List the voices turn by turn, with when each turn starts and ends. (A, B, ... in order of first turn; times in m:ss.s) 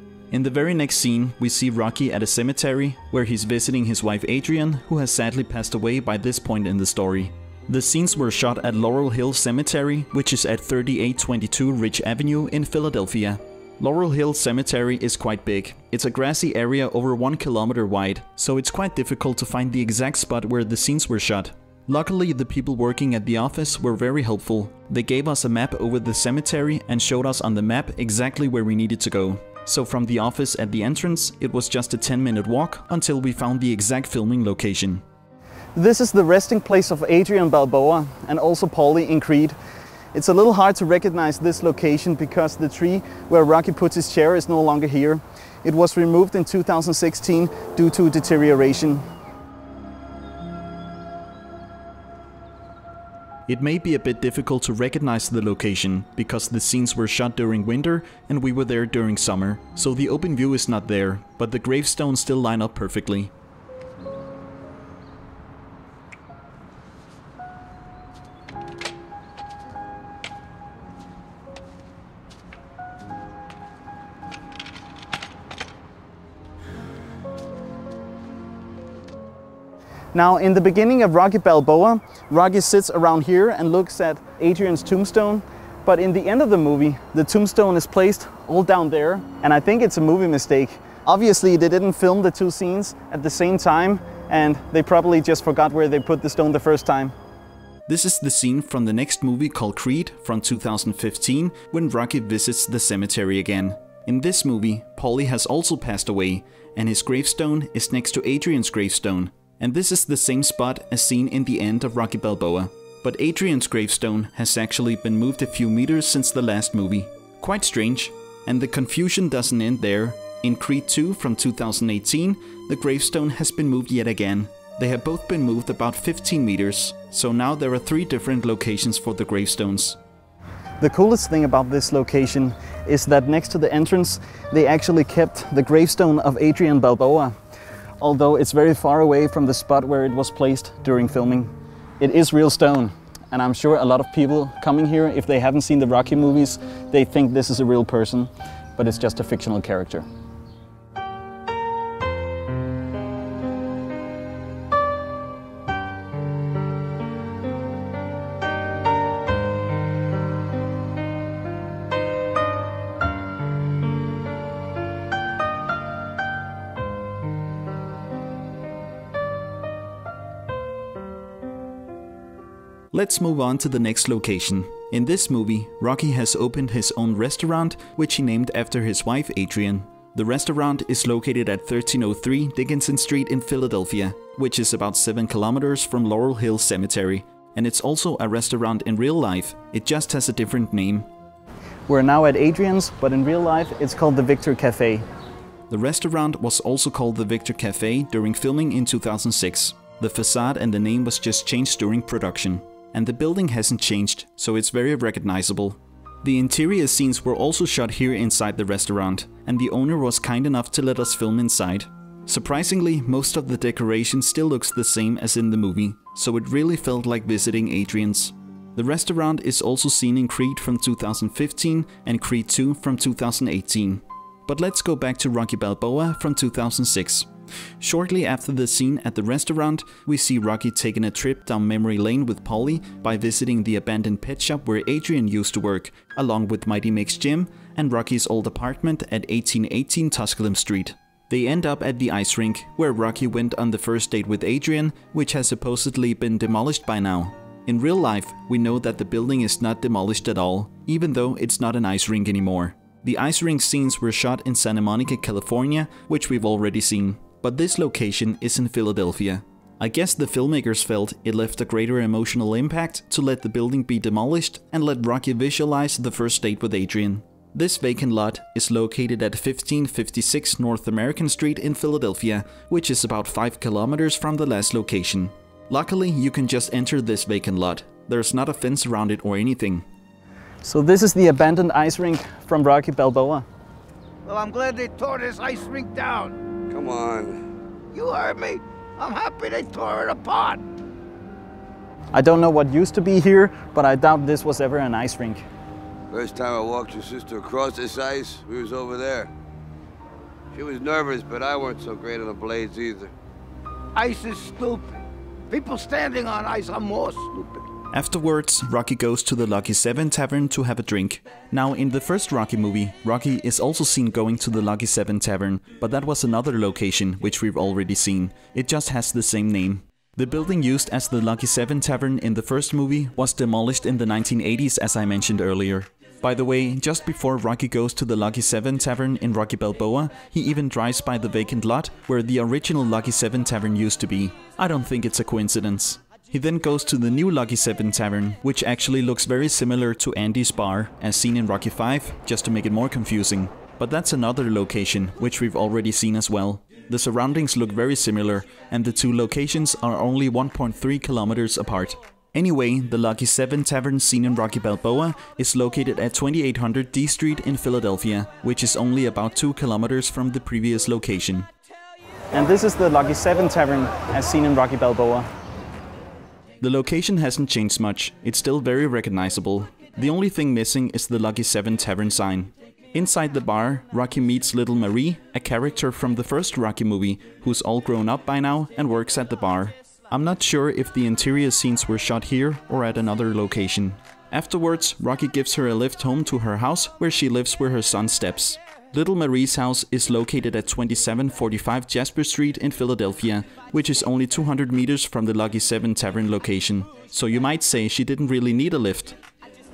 0:00.3-0:35.0 A
0:35.7-0:39.6 B
0:40.1-0:49.0 B
0:53.5-1:03.3 A
1:20.1-1:37.1 B
1:37.9-2:10.0 A
2:10.8-2:17.3 B
2:18.0-2:30.0 B
2:52.9-3:11.1 A
3:11.9-3:15.0 B
3:15.7-3:47.3 A
3:47.8-4:39.8 A
4:40.6-4:43.4 B
4:44.2-4:46.3 C
4:46.7-4:47.4 D
4:47.9-4:50.6 C
4:52.1-4:55.5 B
4:56.1-4:59.3 D
5:00.5-5:03.1 D
5:04.0-5:04.9 C
5:05.5-5:07.5 C
5:07.9-6:01.5 A
6:02.3-6:05.3 B
6:06.6-6:39.2 A